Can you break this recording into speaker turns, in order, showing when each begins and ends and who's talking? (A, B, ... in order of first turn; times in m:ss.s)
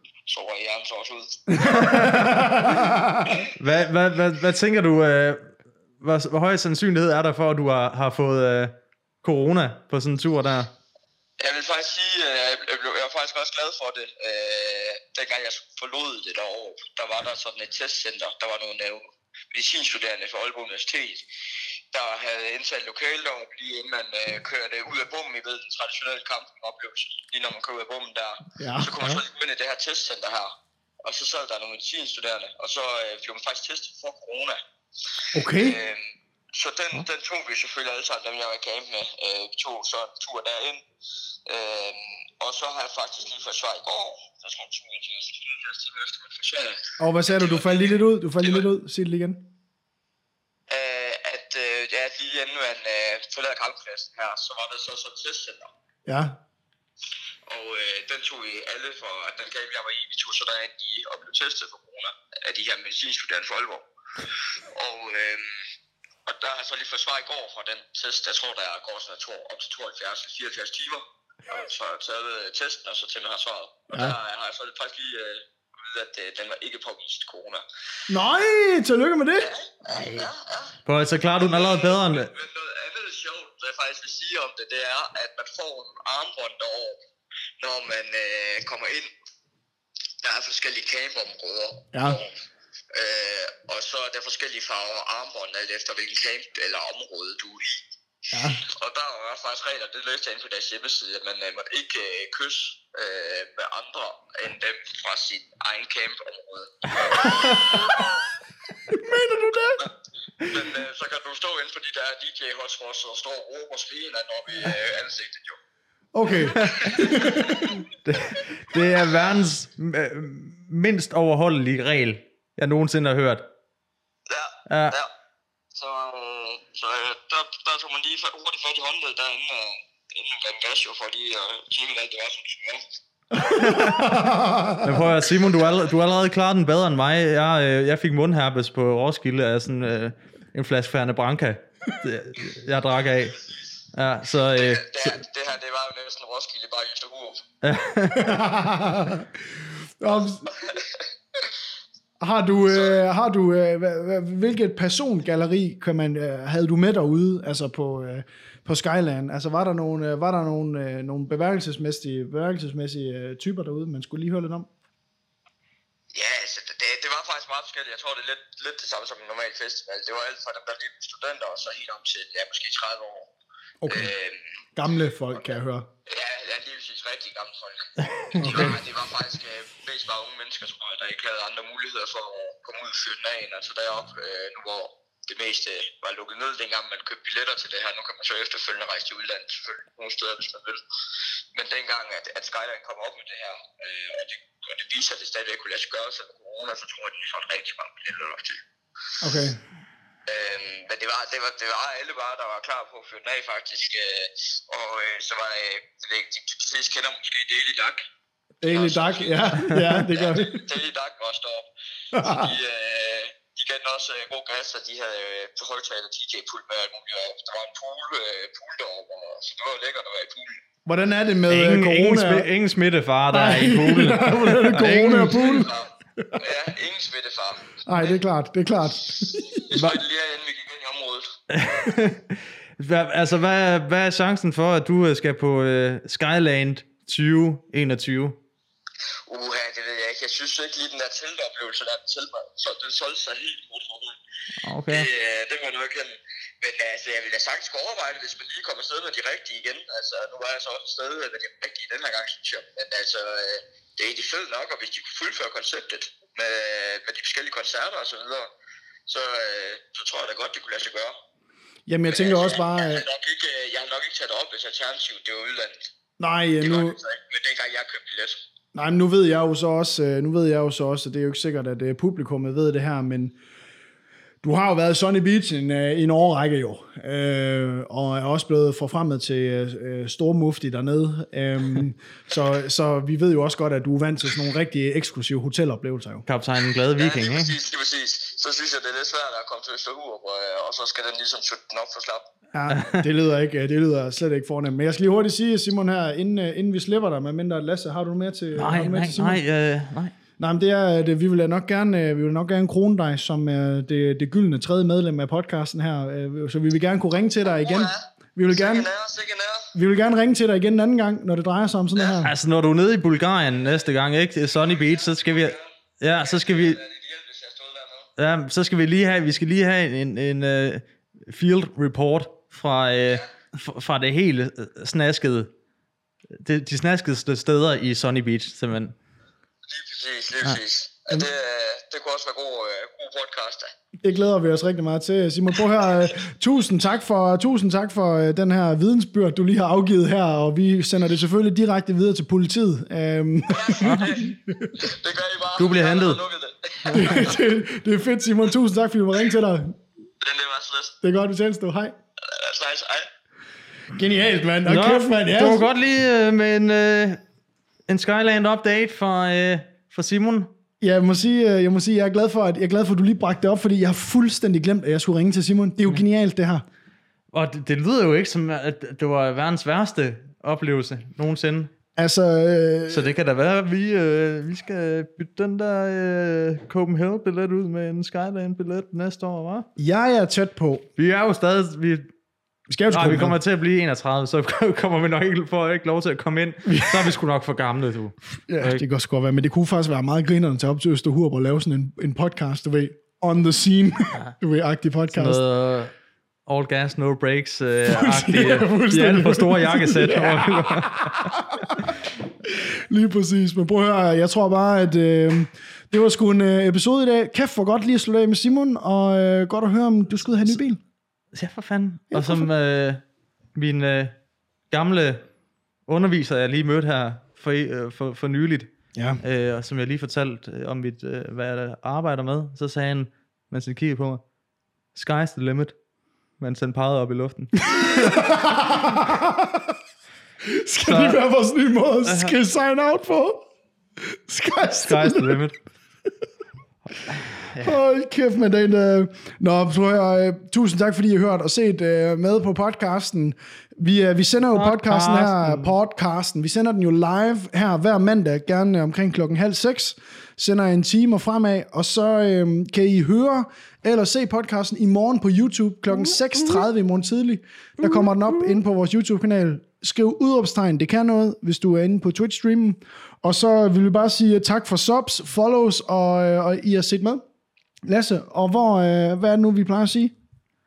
0:00.3-0:01.6 A
0:01.5-0:03.4 B
0:01.6-0:02.8 C
0:03.5-0:10.7 C
0:11.4-0:21.2 A
0:21.9-0:30.5 A
0:28.6-0:29.0 B
0:31.0-0:34.6 A
0:35.3-0:35.8 B
0:35.4-0:36.0 A
0:36.5-0:40.8 A
0:41.4-0:48.7 A
0:47.0-0:49.5 B
0:50.7-0:55.7 A
0:56.0-0:56.4 B
0:57.5-1:03.8 A
1:04.7-1:05.6 A
1:06.2-1:17.6 A
1:13.9-1:14.2 B
1:18.1-1:19.5 B
1:19.4-1:20.8 A
1:19.9-1:20.3 C
1:20.8-1:22.3 C
1:21.3-1:27.0 A
1:27.6-1:29.1 A
1:30.2-1:32.3 A
1:31.9-1:32.2 B
1:32.9-1:37.8 A
1:38.3-1:38.6 B
1:38.6-1:47.9 A
1:47.8-1:48.2 B
1:48.9-1:49.9 B
1:50.5-1:55.6 A
1:56.1-1:57.8 B
1:56.5-1:57.7 A
1:56.5-1:57.1 C
1:57.8-2:03.5 C
1:58.8-1:59.2 A
2:04.3-2:05.1 A
2:04.7-2:05.0 C
2:05.7-2:12.8 A
2:13.3-2:15.0 B
2:13.4-2:14.1 C
2:14.8-2:23.4 C
2:23.9-2:25.2 C
2:24.5-2:27.4 A
2:27.6-2:28.4 C
2:28.1-2:30.5 B
2:30.4-2:31.0 A
2:32.2-2:44.7 B
2:32.7-2:33.0 A
2:46.1-2:53.3 A
2:53.8-2:54.1 B
2:53.9-2:54.6 A
2:54.8-2:55.9 B
2:56.0-3:10.8 A
2:58.0-2:58.8 C
2:58.4-2:58.8 B
3:11.5-3:18.6 A
3:19.2-3:19.6 B
3:20.3-3:28.0 A
3:28.6-3:30.7 B
3:28.6-3:40.6 A
3:29.5-3:30.0 C
3:32.1-3:32.5 B
3:40.8-3:42.5 B
3:41.5-3:45.6 C
3:43.3-3:46.3 B
3:45.0-3:48.1 A
3:47.8-3:49.5 B
3:49.5-3:51.4 A
3:49.7-3:50.0 C
3:51.5-3:58.4 C
3:59.3-4:04.2 A
4:04.6-4:05.1 C
4:04.9-4:18.5 A
4:19.1-4:21.2 A
4:21.9-4:23.0 B
4:22.1-4:25.9 A
4:26.2-4:27.0 B
4:26.6-4:28.4 A
4:28.7-4:33.4 B
4:34.4-4:46.2 B
4:46.3-4:47.6 C
4:46.9-4:52.2 A
4:52.5-4:59.4 B
4:52.7-4:53.0 C
4:58.5-5:00.1 C
5:00.4-5:08.9 B
5:07.4-5:09.7 A
5:09.7-5:12.3 B
5:12.2-5:16.8 C
5:14.5-5:18.1 A
5:18.2-5:25.5 C
5:26.4-5:29.0 C
5:29.7-5:33.7 A
5:34.0-5:44.7 B
5:43.5-5:47.3 A
5:43.8-5:44.1 C
5:45.6-5:46.2 C
5:46.9-5:49.8 B
5:50.2-5:51.0 A
5:51.0-5:51.9 B
5:52.2-5:53.1 A
5:53.9-5:55.7 B
5:54.6-5:57.2 C
5:57.9-6:00.5 C
6:00.8-6:06.6 B
6:07.3-6:11.7 C
6:12.0-6:13.1 B
6:12.9-6:19.7 C
6:19.8-6:20.8 B
6:21.0-6:22.1 C
6:22.7-6:23.4 B
6:22.9-6:28.8 C
6:26.6-6:27.2 B
6:28.5-6:35.4 B
6:35.1-6:35.9 C
6:36.5-6:41.3 C
6:37.8-6:50.8 B
6:51.3-6:53.0 C
6:52.1-6:52.5 B
6:53.5-6:54.2 C
6:54.7-6:55.2 C
6:55.9-7:04.2 C
6:58.9-6:59.2 B
7:04.9-7:05.8 C
7:06.4-7:08.3 C
7:07.6-7:09.7 B
7:10.4-7:13.4 B
7:10.8-7:11.2 C
7:12.0-7:12.3 C
7:14.0-7:15.4 B
7:14.8-7:15.5 C
7:17.0-7:17.8 C
7:17.6-7:47.2 B
7:24.5-7:25.7 C
7:47.8-7:50.1 B